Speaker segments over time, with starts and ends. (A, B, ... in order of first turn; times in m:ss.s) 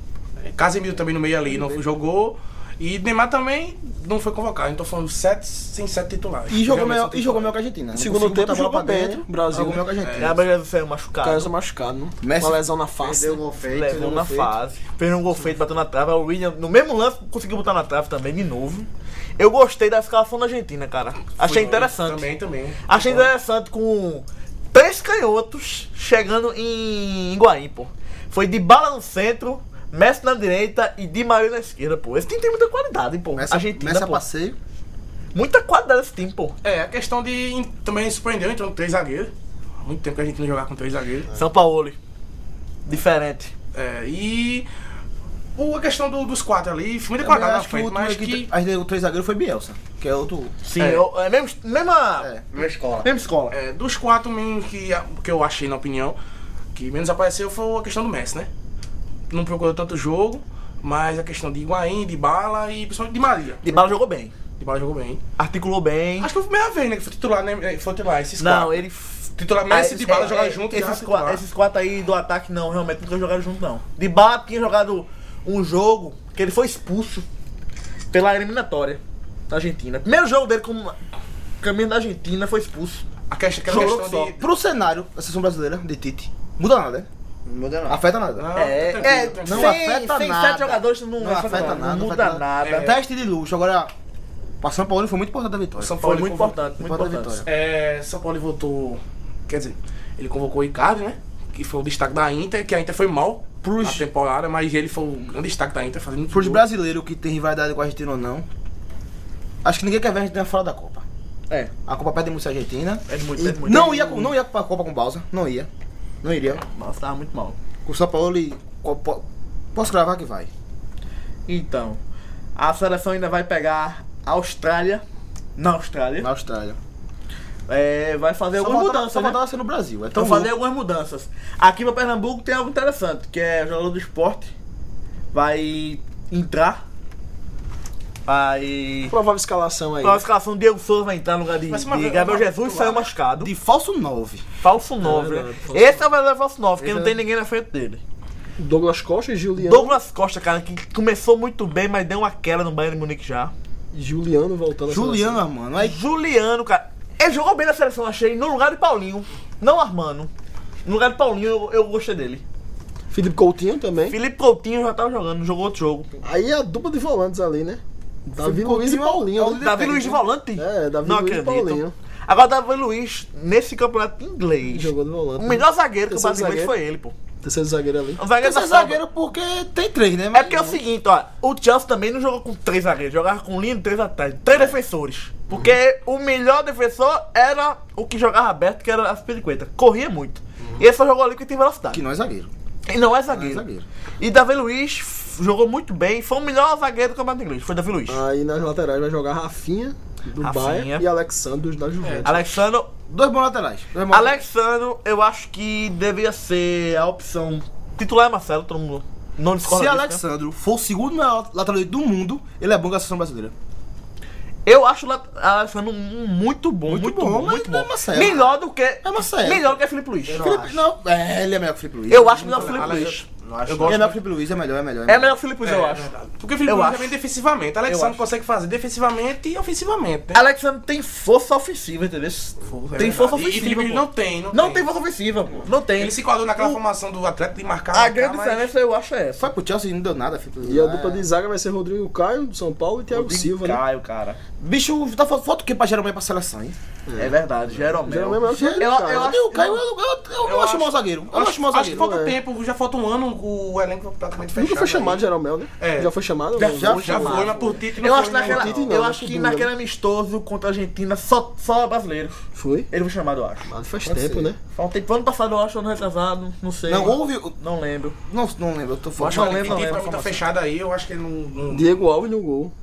0:00.4-0:07.5 A
0:06.5-0:10.4 B
0:08.0-0:09.9 C
0:10.0-0:10.4 A
0:10.2-0:11.5 D
0:11.2-0:13.4 C
0:12.2-0:12.6 B
0:13.0-0:14.6 E
0:13.7-0:22.3 D
0:21.4-0:23.3 A
0:22.9-0:34.2 D
0:33.4-0:34.6 B
0:35.3-0:36.6 D
0:36.6-0:41.3 A
0:41.3-0:42.0 D
0:42.9-0:43.5 D
0:43.7-0:44.7 A
0:45.6-0:48.5 A
0:47.2-0:50.5 B
0:50.6-0:52.3 D
0:50.8-0:51.1 A
0:52.5-0:53.1 E
0:53.0-0:53.6 D
0:53.5-0:56.2 A
0:56.8-0:58.5 A
0:59.3-1:03.7 A
1:03.6-1:04.3 D
1:04.6-1:05.2 A
1:05.4-1:06.3 D
1:06.2-1:08.8 A
1:08.4-1:17.2 D
1:09.4-1:11.4 A
1:18.1-1:21.0 D
1:21.6-1:23.0 D
1:23.3-1:24.5 A
1:23.7-1:24.3 D
1:23.7-1:27.1 B
1:27.5-1:28.0 E
1:27.9-1:33.9 B
1:28.4-1:29.8 A
1:28.6-1:33.0 D
1:32.6-1:32.9 A
1:34.6-1:36.0 B
1:35.8-1:36.6 A
1:36.0-1:37.4 D
1:36.8-1:37.5 B
1:37.4-1:46.6 A
1:43.6-1:44.1 B
1:46.3-1:48.5 B
1:49.6-1:51.0 B
1:51.9-1:55.7 B
1:53.1-1:54.3 D
1:56.2-1:56.6 B
1:56.6-1:57.6 D
1:57.9-1:59.2 B
1:59.8-2:00.5 B
2:01.5-2:02.0 D
2:02.6-2:05.0 D
2:05.6-2:06.3 D
2:06.2-2:06.8 B
2:07.7-2:09.4 D
2:08.6-2:10.5 B
2:10.1-2:14.5 D
2:15.3-2:16.8 D
2:18.3-2:19.2 D
2:19.1-2:20.2 C
2:20.0-2:23.5 D
2:21.7-2:23.1 A
2:23.4-2:24.4 B
2:24.6-2:28.0 D
2:25.0-2:26.1 C
2:26.8-2:27.1 C
2:28.6-2:30.0 C
2:29.6-2:33.5 D
2:33.9-2:35.4 C
2:34.9-2:36.0 B
2:35.8-2:40.3 D
2:40.8-2:42.4 D
2:43.1-2:44.2 C
2:44.1-2:46.1 D
2:46.2-2:49.8 C
2:48.4-2:50.2 B
2:49.6-2:57.1 D
2:50.5-2:51.9 C
2:54.6-2:56.8 C
2:57.4-2:58.2 C
2:58.2-2:59.0 D
2:58.4-3:00.8 B
3:00.3-3:12.0 D
3:11.9-3:12.5 B
3:12.9-3:13.6 D
3:13.3-3:13.8 B
3:14.2-3:18.2 D
3:18.1-3:22.4 C
3:20.4-3:21.1 D
3:22.0-3:22.3 A
3:22.2-3:22.9 D
3:23.1-3:24.4 B
3:24.1-3:30.2 D
3:29.6-3:33.5 B
3:34.7-3:40.4 D
3:36.9-3:39.8 B
3:40.3-3:40.8 E
3:40.3-3:42.9 B
3:42.1-3:44.0 D
3:42.1-3:44.1 A
3:43.4-3:44.2 E
3:43.8-3:45.4 B
3:45.1-3:46.1 D
3:45.6-3:50.4 A
3:46.7-3:47.2 D
3:47.9-3:48.2 D
3:50.3-3:56.8 D
3:52.9-3:54.9 A
3:53.0-3:53.6 B
3:56.0-3:58.7 A
3:57.9-3:59.5 D
3:59.4-4:01.3 B
4:00.6-4:03.8 C
4:03.1-4:04.4 D
4:04.6-4:06.8 B
4:07.1-4:09.4 C
4:07.2-4:09.8 D
4:08.5-4:12.2 B
4:10.4-4:15.2 A
4:11.9-4:12.4 C
4:14.6-4:17.5 C
4:15.8-4:16.1 A
4:16.6-4:23.7 D
4:16.7-4:17.8 B
4:17.0-4:18.9 A
4:18.4-4:19.7 C
4:22.6-4:22.9 C
4:23.7-4:24.6 C
4:24.0-4:24.5 B
4:24.7-4:28.2 D
4:26.9-4:27.6 B
4:28.3-4:30.4 B
4:29.2-4:31.9 A
4:29.3-4:30.3 D
4:31.7-4:32.7 C